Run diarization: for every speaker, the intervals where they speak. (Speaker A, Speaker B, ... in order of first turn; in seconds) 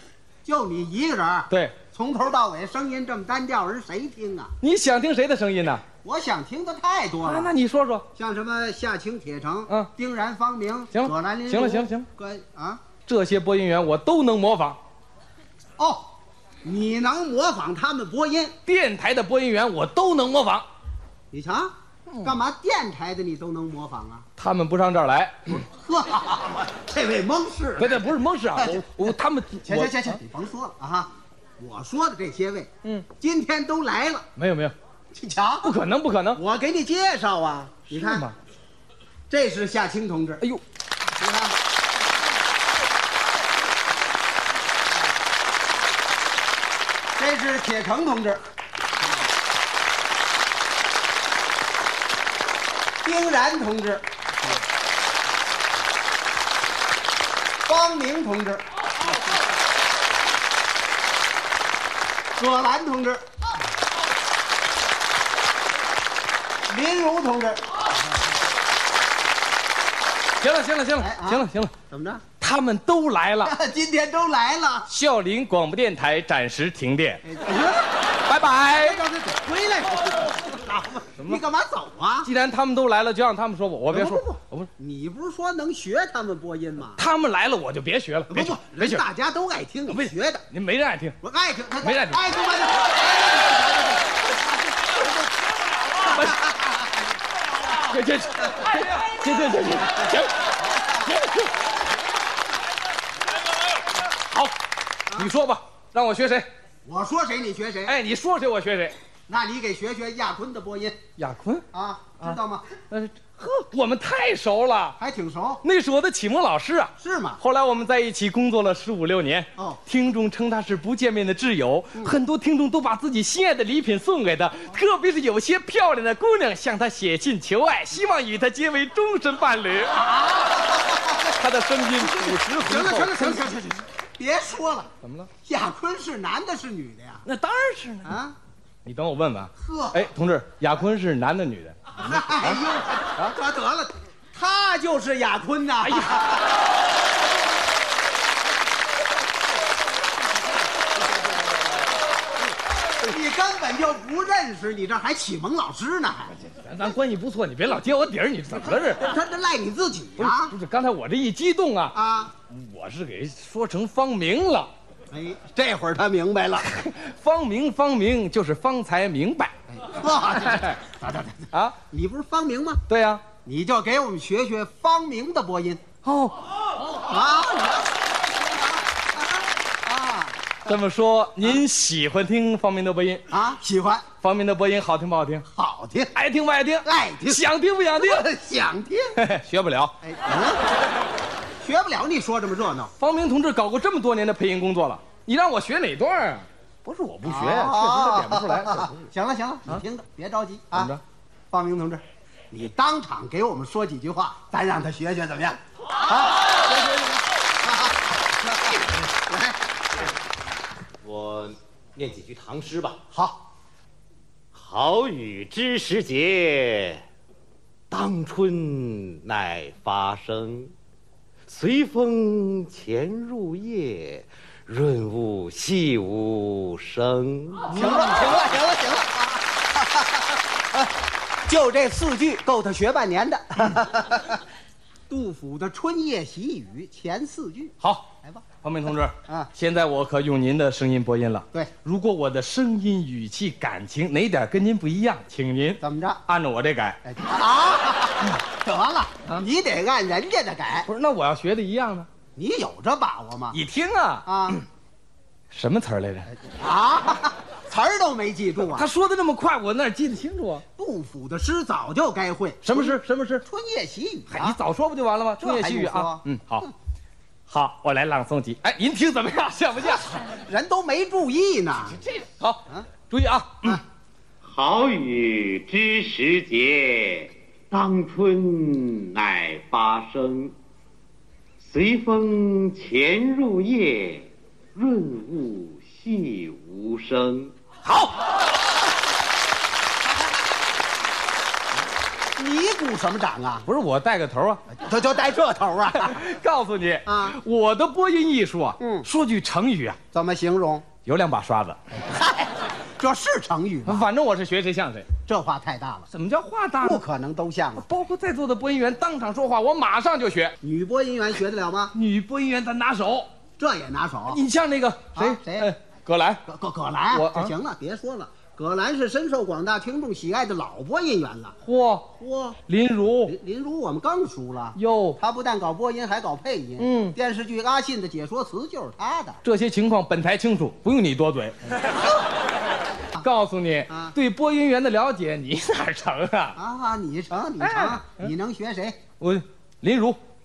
Speaker A: 0.5-4.5, 6.0-7.5, 8.2-12.8, 15.8-18.6, 21.3-21.7, 22.2-24.2, 25.6-34.3, 35.1-35.7, 36.4-38.3, 39.3-40.4, 41.1-41.5, 47.2-48.4, 53.0-54.6, 57.7-58.6, 62.4-63.3, 66.7-67.9, 71.0-72.2, 73.5-74.9, 77.2-77.9, 78.8-82.3, 83.9-87.0, 88.3-90.5, 91.2-94.1, 96.1-96.9, 100.6-101.2, 106.8-108.0, 109.3-111.0, 111.7-112.7, 115.0-115.6, 117.0-117.4, 130.0-131.3, 131.9-134.9, 135.4-137.3, 138.0-138.4, 139.6-140.1, 142.0-146.5, 153.0-156.3, 158.9-160.6, 161.9-162.3, 165.1-166.7, 169.7-172.8, 173.4-175.8, 176.8-180.7, 183.3-184.1, 185.5-186.1, 186.8-189.1, 190.0-190.7, 191.6-192.9, 197.2-200.9, 201.5-209.6, 213.1-213.4, 227.7-230.9, 231.5-234.4, 235.1-238.4, 245.8-246.2, 247.1-250.9, 252.4-253.6, 254.3-254.6, 256.4-258.9, 260.8-264.6, 265.4-266.2, 270.2-272.0, 292.4-293.7, 294.7-296.2, 297.1-297.4, 298.8-299.1, 300.1-300.9, 302.1-304.1, 305.3-306.1, 306.8-307.9, 310.6-311.9, 313.6-314.4, 315.1-315.7, 316.5-321.6, 322.1-322.6, 323.3-329.4, 331.7-332.0, 333.9-334.1, 336.6-339.0
Speaker B: 1.5-1.8, 4.6-5.8, 7.2-8.1, 10.9-12.1, 13.1-14.8, 18.6-20.6, 24.4-25.6, 27.8-30.2, 34.4-34.7, 35.6-36.4, 37.9-38.4, 70.4-71.7, 72.4-73.5, 74.9-77.2, 78.2-79.0, 82.2-84.7, 87.0-89.0, 89.9-91.2, 91.8-92.2, 96.0-96.4, 97.7-101.7, 104.2-104.5, 105.1-106.5, 107.9-108.9, 111.2-111.7, 112.9-115.0, 115.6-130.3, 131.1-133.6, 135.0-135.3, 137.2-138.1, 138.8-143.4, 145.8-146.4, 156.4-159.1, 160.2-162.0, 162.5-164.7, 166.6-169.5, 170.4-170.8, 172.9-173.3, 176.0-176.4, 180.7-183.3, 184.2-185.5, 186.2-188.3, 189.2-190.0, 193.0-199.1, 200.7-201.0, 237.8-238.1, 238.6-247.0, 250.9-252.1, 253.5-254.6, 255.5-256.3, 258.6-260.6, 262.6-263.4, 264.3-266.7, 267.5-270.2, 271.9-273.8, 293.6-294.6, 295.9-300.0, 301.0-301.8, 303.9-305.1, 306.1-307.0, 307.8-310.6, 311.9-313.3, 314.3-316.4, 317.1-317.5, 321.6-322.1, 322.7-323.3, 324.8-325.2, 326.8-327.2, 329.4-331.8, 333.2-336.6, 337.6-338.3, 339.2-340.2
Speaker C: 211.0-213.0, 214.5-217.0, 217.9-220.7, 221.5-227.9, 274.4-280.6, 281.6-287.5